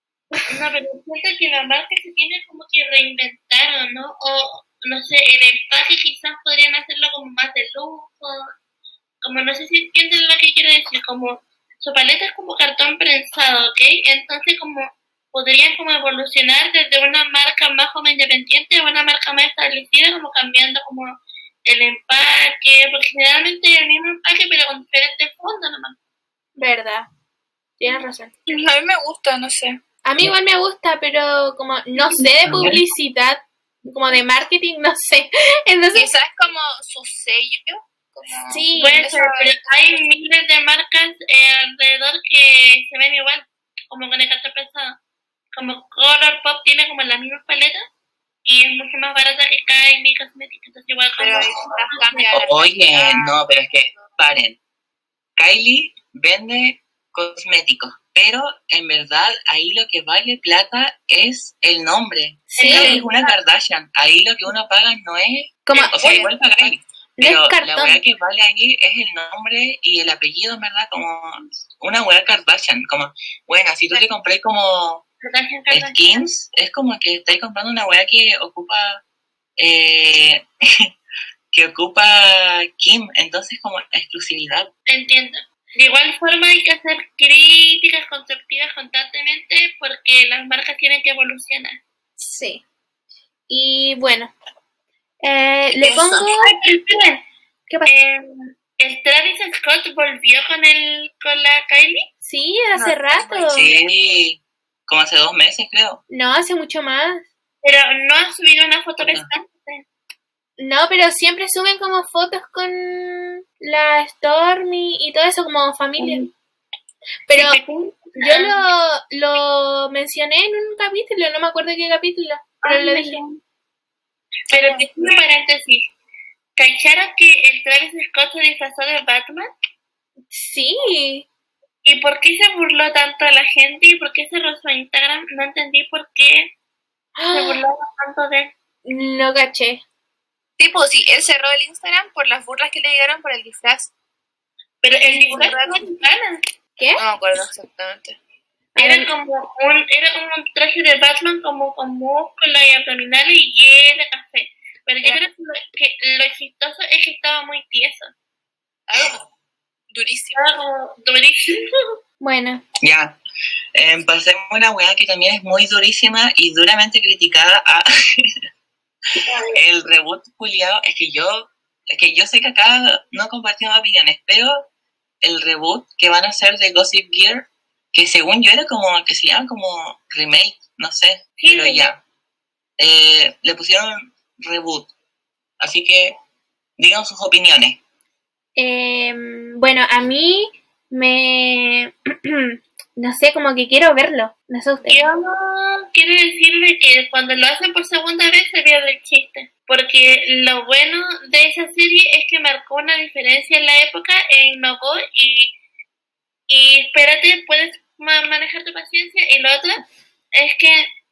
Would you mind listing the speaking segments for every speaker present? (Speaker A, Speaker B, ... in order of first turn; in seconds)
Speaker A: 0.5-8.5, 9.2-21.1, 21.6-26.0, 32.1-32.4, 38.8-45.0, 45.5-47.8, 48.5-52.4, 62.5-63.4, 65.8-66.2, 75.2-76.0, 84.9-91.8, 95.8-97.2, 97.9-102.1, 107.6-109.8, 116.0-116.3, 117.4-118.6, 122.6-123.4, 124.5-125.9, 126.6-129.5, 131.8-136.5, 137.3-138.5, 144.8-146.4, 148.8-158.1, 160.3-162.0, 169.3-169.6, 181.4-181.9, 194.8-205.5, 206.5-209.8, 210.3-210.9
Speaker B: 26.6-27.1, 27.8-28.3, 30.1-36.1, 38.5-39.0, 62.5-63.0, 65.7-66.0, 67.2-68.0, 92.2-92.6, 93.5-94.3, 95.2-96.6, 102.2-103.7, 106.1-107.2, 110.6-116.3, 117.3-117.6, 118.2-123.2, 130.3-131.3, 137.2-137.6, 138.8-139.8, 146.8-147.0, 148.8-149.1, 162.2-162.6, 188.6-195.0
Speaker C: 28.5-29.8, 36.0-39.6, 51.2-54.1, 66.0-66.8, 102.8-103.9, 124.5-125.1, 140.6-143.9, 145.1-145.8, 147.0-148.2, 158.9-159.2, 159.9-160.4
Speaker D: 32.5-32.8, 52.3-54.6, 55.4-75.0, 75.7-79.0, 79.6-80.9, 81.5-84.7, 103.5-106.0, 109.0-109.3, 162.8-163.2, 163.7-168.3, 169.6-174.7, 175.2-182.0, 182.8-184.9, 185.6-186.1, 186.8-187.8